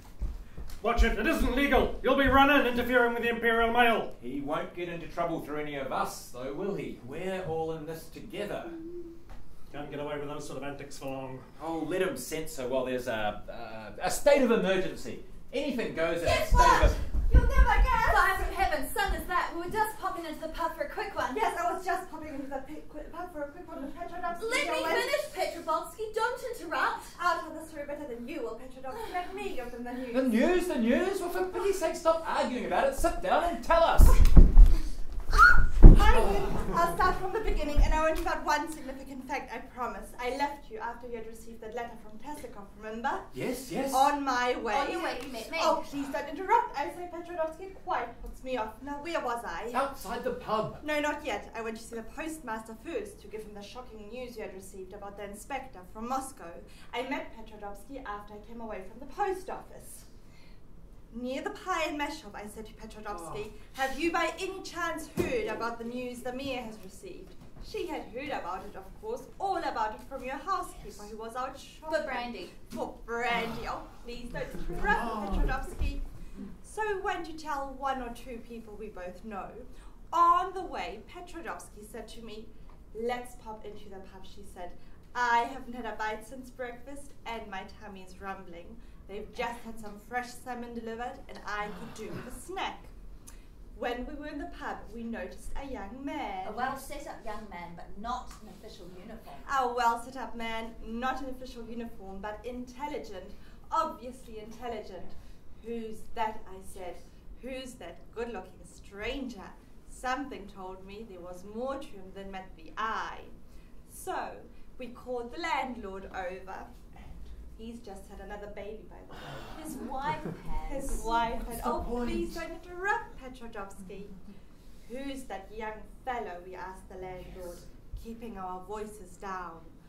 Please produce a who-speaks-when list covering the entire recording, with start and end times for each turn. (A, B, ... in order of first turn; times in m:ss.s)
0:00.8-0:04.1 A
0:04.2-0:08.8 B
0:09.7-0:11.4 A
0:11.6-0:17.0 B
0:16.2-0:21.8 C
0:17.3-0:18.4 D
0:21.3-0:25.2 D
0:24.4-0:27.2 C
0:27.2-0:30.3 D
0:30.1-0:34.2 B
0:35.9-0:43.3 D
0:36.0-0:36.6 B
0:43.3-0:44.1 B
0:43.9-0:49.8 D
0:44.7-0:45.9 C
0:49.7-0:50.8 B
0:50.8-1:00.1 D
1:01.1-1:16.0 D
1:03.1-1:03.4 B
1:11.9-1:12.6 C
1:16.6-1:32.9 D
1:33.7-1:36.7 D
1:36.4-1:39.5 C
1:39.4-1:53.3 D
1:53.9-1:56.7 D
1:57.5-2:04.2 D
1:59.4-2:01.3 C
2:01.5-2:02.4 B
2:04.8-2:09.7 D